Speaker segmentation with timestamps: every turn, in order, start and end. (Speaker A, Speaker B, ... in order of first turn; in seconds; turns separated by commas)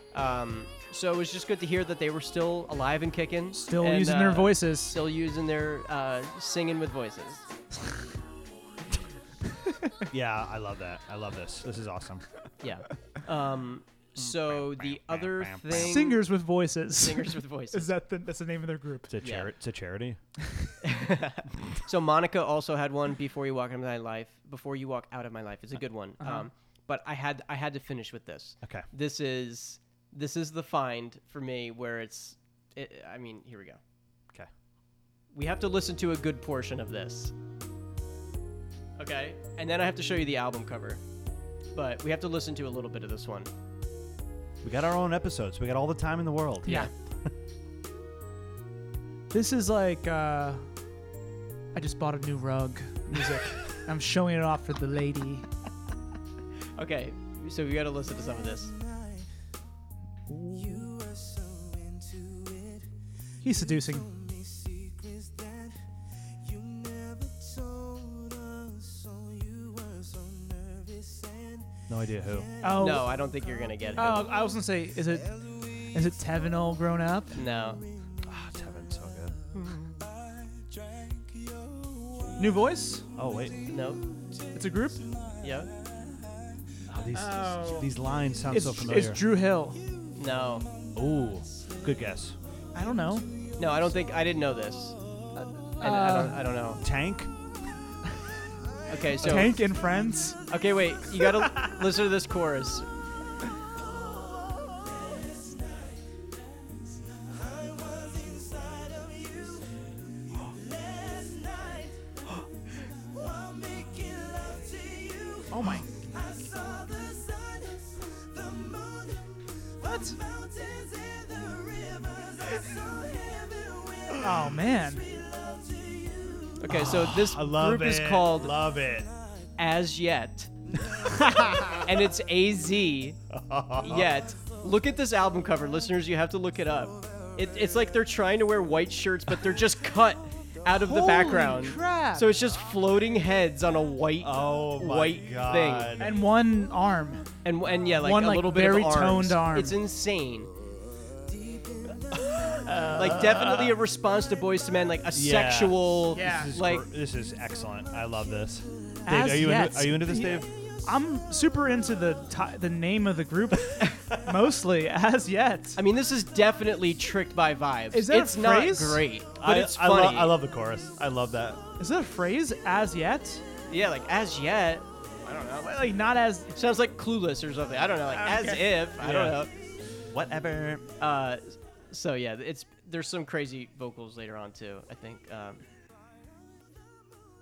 Speaker A: 0.1-7.5, Speaker B: 3.5-5.0, Speaker C: 10.1-12.2, Speaker A: 12.6-16.2, Speaker C: 14.2-16.0, Speaker B: 15.7-19.1, Speaker A: 16.9-17.9, Speaker C: 19.1-20.2, Speaker A: 19.2-19.5, Speaker A: 20.8-33.8, Speaker B: 26.2-26.5, Speaker A: 35.3-37.3, Speaker A: 39.0-41.0, Speaker A: 41.7-43.5, Speaker C: 44.6-46.9, Speaker A: 46.6-46.9, Speaker B: 46.6-46.9, Speaker B: 49.3-50.7, Speaker B: 51.7-55.5, Speaker A: 56.7-58.7, Speaker B: 60.3-61.0, Speaker B: 63.4-64.1, Speaker C: 71.9-72.5, Speaker B: 72.6-73.1, Speaker A: 72.7-74.3, Speaker B: 74.0-77.4, Speaker A: 77.3-77.8, Speaker C: 78.2-79.4, Speaker A: 79.5-80.0, Speaker B: 82.4-83.0, Speaker C: 83.2-83.6, Speaker A: 83.7-84.0, Speaker B: 84.5-85.1, Speaker A: 85.4-85.7, Speaker C: 86.9-89.2, Speaker B: 87.1-87.9, Speaker B: 88.5-89.8, Speaker A: 90.1-90.7, Speaker C: 90.9-92.4, Speaker B: 92.7-93.3, Speaker A: 93.6-95.0, Speaker B: 95.3-96.5, Speaker A: 95.8-96.8, Speaker C: 96.8-97.3, Speaker A: 98.9-99.6, Speaker B: 99.2-100.4, Speaker A: 100.5-102.9, Speaker B: 115.5-116.3, Speaker B: 119.8-120.2, Speaker B: 124.2-125.1, Speaker A: 126.6-128.5, Speaker C: 126.7-129.1, Speaker A: 129.6-130.5, Speaker A: 131.8-133.2, Speaker C: 133.3-134.1, Speaker A: 133.8-145.9, Speaker B: 140.7-142.3, Speaker C: 144.2-146.1, Speaker B: 146.0-147.3, Speaker A: 147.4-150.5, Speaker B: 147.9-149.8, Speaker C: 152.7-153.2, Speaker A: 152.9-156.8, Speaker C: 155.1-160.5, Speaker B: 156.1-156.5, Speaker B: 159.1-165.8, Speaker A: 165.8-170.3, Speaker B: 167.9-169.0, Speaker C: 169.4-171.6, Speaker B: 171.8-173.4, Speaker A: 173.7-175.8, Speaker B: 175.6-176.5, Speaker A: 176.5-179.5, Speaker B: 178.2-178.6, Speaker C: 179.0-179.4, Speaker C: 180.1-180.8, Speaker A: 181.0-185.6